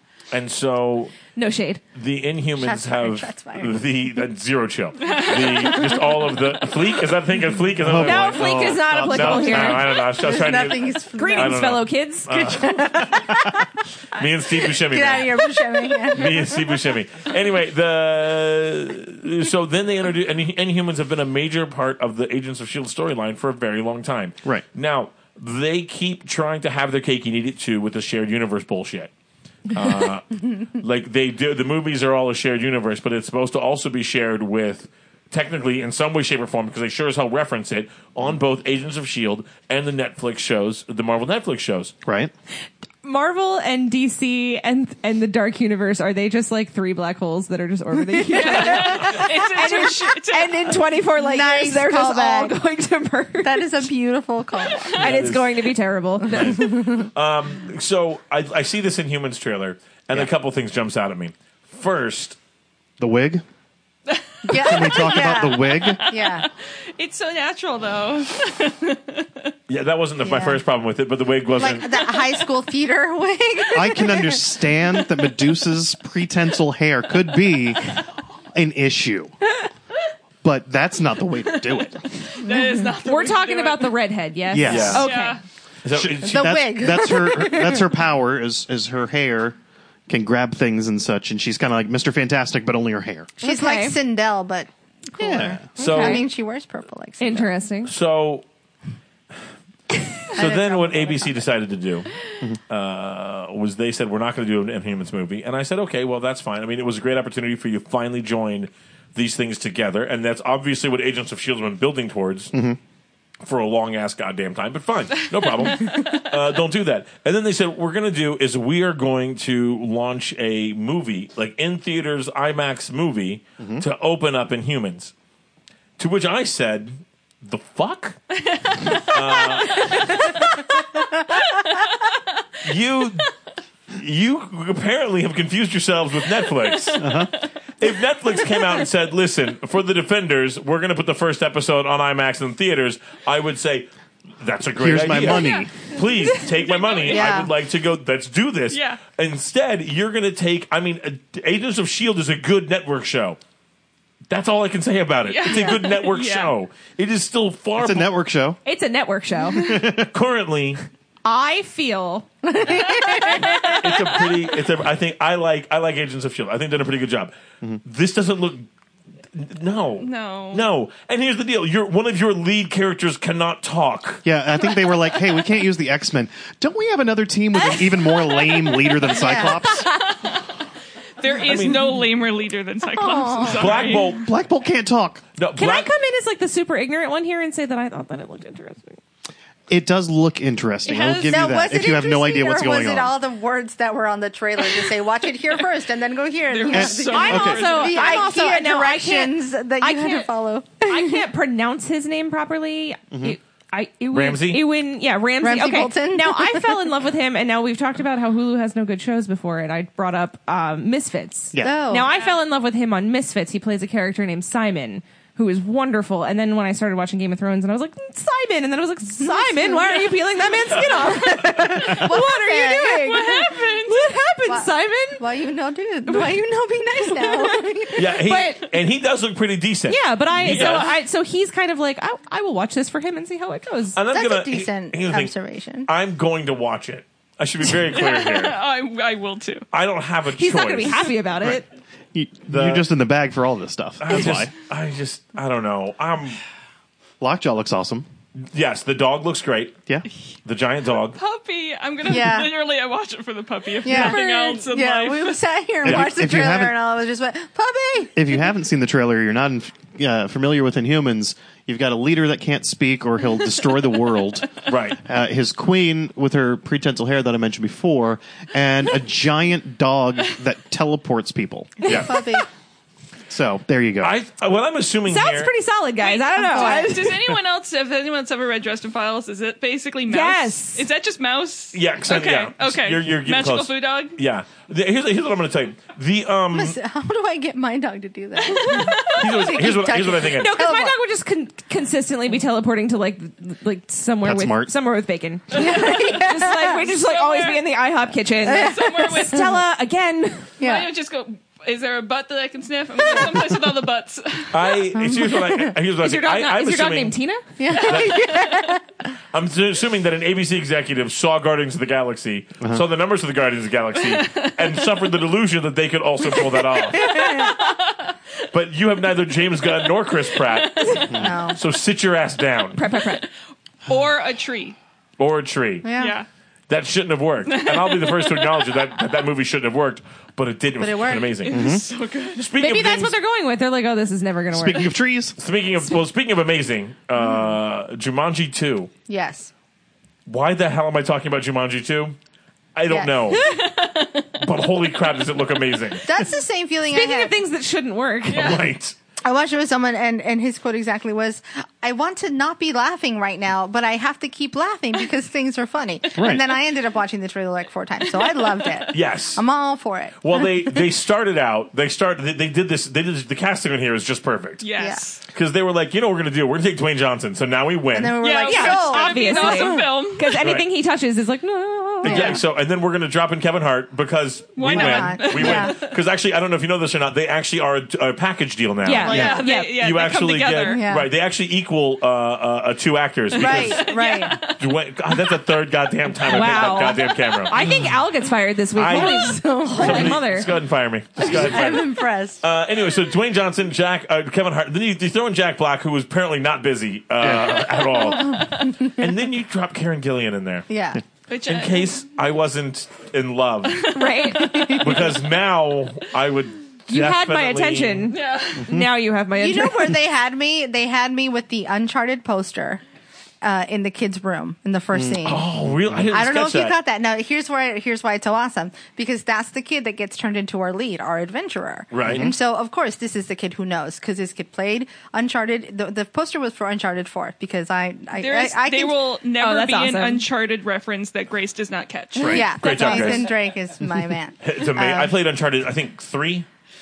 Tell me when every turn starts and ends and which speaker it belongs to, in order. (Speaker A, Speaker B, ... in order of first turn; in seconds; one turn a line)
Speaker A: 0.3-1.2
Speaker B: 1.3-1.8
Speaker A: 1.9-12.9
Speaker C: 2.5-3.8
Speaker D: 5.0-6.0
Speaker E: 7.8-9.8
Speaker B: 7.9-10.1
Speaker C: 9.9-11.7
Speaker B: 11.2-13.0
Speaker C: 12.6-13.7
Speaker A: 14.1-15.4
Speaker C: 14.2-16.8
Speaker A: 16.1-29.1
Speaker A: 29.7-41.9
Speaker E: 42.0-42.3
Speaker B: 43.0-53.7
Speaker C: 48.3-49.1
Speaker D: 48.3-50.8
Speaker C: 51.2-52.5
Speaker C: 53.4-55.2
Speaker B: 54.9-57.0
Speaker A: 55.0-55.7
Speaker A: 56.3-62.4
Speaker E: 63.0-63.4
Speaker D: 64.1-69.5
Speaker C: 64.4-66.5
Speaker E: 64.5-66.1
Speaker A: 69.7-71.9
Speaker C: 70.2-70.6
Speaker C: 71.6-74.5
Speaker E: 73.7-79.3
Speaker E: 80.4-82.3
Speaker D: 81.6-84.0
Speaker C: 82.4-82.9
Speaker B: 82.9-85.4
Speaker E: 84.5-85.1
Speaker A: 84.6-85.1
Speaker D: 84.8-85.4
Speaker A: 85.8-86.6
Speaker E: 85.9-89.5
Speaker C: 86.2-88.0
Speaker E: 90.1-93.3
Speaker B: 93.4-94.0
Speaker C: 93.4-97.5
Speaker E: 95.2-95.6
Speaker A: 95.8-96.2
Speaker B: 95.8-96.3
Speaker B: 97.2-97.9
Speaker A: 97.8-98.5
Speaker C: 100.3-101.5
Speaker A: 100.3-102.1
Speaker A: 102.7-112.6
Speaker E: 112.5-112.8
Speaker A: 113.4-125.1
Speaker D: 115.6-116.1
Speaker E: 123.6-123.8
Speaker A: 126.0-128.2
Speaker D: 128.4-130.7
Speaker A: 128.8-130.2
Speaker D: 131.6-132.1
Speaker A: 132.6-133.3
Speaker A: 133.9-137.1
Speaker D: 136.7-137.4
Speaker E: 137.0-137.3
Speaker A: 137.8-143.9
Speaker D: 138.4-138.8
Speaker A: 144.4-153.4
Speaker E: 144.8-145.7
Speaker D: 145.2-147.3
Speaker C: 147.0-147.5
Speaker D: 148.7-149.0
Speaker A: 154.3-158.1
Speaker D: 155.2-156.5
Speaker C: 155.5-155.8
Speaker E: 157.8-158.6
Speaker B: 158.6-159.8
Speaker E: 159.5-160.1
Speaker D: 159.6-159.8
Speaker A: 160.1-160.8
Speaker B: 161.2-162.3
Speaker C: 162.4-163.7
Speaker B: 163.0-164.1
Speaker D: 163.1-163.4
Speaker A: 163.8-167.3
Speaker A: 167.8-168.7
Speaker A: 169.3-174.2
Speaker D: 170.0-170.7
Speaker E: 174.2-179.9
Speaker D: 179.1-180.5
Speaker C: 179.1-179.8
Speaker D: 181.2-184.2
Speaker A: 181.3-181.8
Speaker C: 182.9-183.7
Speaker A: 183.5-184.3
Speaker E: 183.6-185.2
Speaker A: 185.4-185.9
Speaker B: 185.6-189.0
Speaker E: 189.7-193.2
Speaker D: 190.8-191.5
Speaker C: 191.2-201.3
Speaker D: 196.5-198.2
Speaker E: 196.7-197.6
Speaker B: 197.1-200.3
Speaker B: 200.8-225.2
Speaker E: 203.1-203.4
Speaker A: 204.1-204.6
Speaker C: 205.4-206.8
Speaker E: 211.5-211.8
Speaker C: 211.6-212.1
Speaker D: 212.1-212.4
Speaker C: 219.2-220.2
Speaker C: 221.0-223.2
Speaker D: 222.5-224.1
Speaker C: 224.4-228.2
Speaker B: 226.1-226.4
Speaker B: 226.9-228.7
Speaker A: 227.9-231.0
Speaker B: 229.9-234.0
Speaker A: 233.9-235.3
Speaker C: 234.1-235.9
Speaker A: 235.8-238.6
Speaker D: 237.7-239.7
Speaker A: 239.7-241.1
Speaker B: 240.3-241.7
Speaker E: 242.1-244.5
Speaker A: 242.5-242.9
Speaker A: 244.0-246.4
Speaker E: 247.2-248.1
Speaker A: 248.5-249.8
Speaker A: 250.4-251.2
Speaker D: 251.1-255.4
Speaker C: 252.1-252.5
Speaker C: 253.8-258.4
Speaker E: 255.8-256.8
Speaker A: 255.8-256.1
Speaker E: 258.1-271.9
Speaker A: 264.6-265.0
Speaker A: 271.8-272.1
Speaker C: 271.9-272.5
Speaker E: 273.3-274.1
Speaker A: 274.0-275.5
Speaker B: 275.1-277.3
Speaker D: 276.0-284.2
Speaker C: 276.5-277.0
Speaker B: 280.1-280.9
Speaker A: 281.7-286.8
Speaker C: 286.5-290.9
Speaker D: 288.4-289.4
Speaker A: 289.1-290.6
Speaker B: 290.3-300.6
Speaker E: 294.2-294.7
Speaker C: 295.5-296.8
Speaker D: 295.7-296.0
Speaker D: 296.8-297.6
Speaker D: 298.4-299.5
Speaker C: 298.4-299.4
Speaker C: 300.6-300.9
Speaker D: 300.6-304.8
Speaker C: 303.1-303.4
Speaker A: 304.5-307.1
Speaker C: 304.9-305.7
Speaker B: 306.0-307.5
Speaker C: 307.6-308.9
Speaker A: 307.7-308.4
Speaker A: 309.3-317.3
Speaker D: 314.1-314.5
Speaker D: 316.9-318.1
Speaker C: 317.0-317.6
Speaker A: 318.5-322.8
Speaker D: 320.3-321.2
Speaker E: 321.1-321.3
Speaker C: 321.1-321.6
Speaker B: 322.8-323.2
Speaker D: 323.9-324.8
Speaker A: 325.2-325.9
Speaker C: 325.8-326.1
Speaker D: 326.0-326.3
Speaker A: 326.7-331.6
Speaker D: 327.5-328.7
Speaker C: 330.8-331.4
Speaker D: 331.4-332.5
Speaker E: 331.5-331.9
Speaker A: 332.4-333.2
Speaker B: 332.6-334.9
Speaker E: 334.5-335.4
Speaker A: 335.4-338.9
Speaker C: 339.1-339.5
Speaker A: 340.3-342.1
Speaker A: 342.7-343.5
Speaker C: 342.9-343.4
Speaker D: 343.3-344.4
Speaker A: 344.4-346.1
Speaker C: 346.0-347.4
Speaker B: 346.9-348.6
Speaker A: 348.3-348.9
Speaker D: 348.3-348.6
Speaker C: 349.2-360.5
Speaker E: 356.2-356.4
Speaker D: 358.2-358.8
Speaker A: 358.9-359.4
Speaker A: 360.2-364.6
Speaker D: 364.6-365.2
Speaker C: 364.8-365.0
Speaker A: 365.3-368.2
Speaker C: 367.9-369.8
Speaker D: 368.2-370.4
Speaker B: 368.4-372.4
Speaker A: 370.4-370.7
Speaker A: 372.0-387.6
Speaker C: 372.1-372.4
Speaker D: 374.6-376.0
Speaker C: 374.6-375.8
Speaker B: 378.8-379.8
Speaker D: 379.0-380.8
Speaker E: 379.1-379.4
Speaker C: 380.6-381.1
Speaker D: 383.3-384.6
Speaker C: 383.3-384.4
Speaker B: 386.2-390.5
Speaker D: 386.6-387.4
Speaker A: 388.7-400.7
Speaker C: 388.9-390.2
Speaker C: 391.2-392.4
Speaker E: 397.2-397.6
Speaker C: 398.0-398.8
Speaker C: 400.7-401.0
Speaker D: 401.3-401.9
Speaker A: 401.5-404.1
Speaker D: 403.7-404.6
Speaker B: 403.9-405.0
Speaker C: 404.4-405.0
Speaker A: 404.7-408.1
Speaker B: 406.9-410.0
Speaker D: 408.1-408.7
Speaker E: 408.6-408.9
Speaker C: 409.4-412.8
Speaker C: 413.4-415.4
Speaker E: 414.9-415.4
Speaker A: 415.2-416.8
Speaker C: 416.1-429.0
Speaker A: 421.9-422.3
Speaker E: 422.1-422.3
Speaker D: 428.1-433.3
Speaker B: 429.4-430.2
Speaker A: 432.2-433.3
Speaker C: 432.2-435.1
Speaker A: 434.4-436.5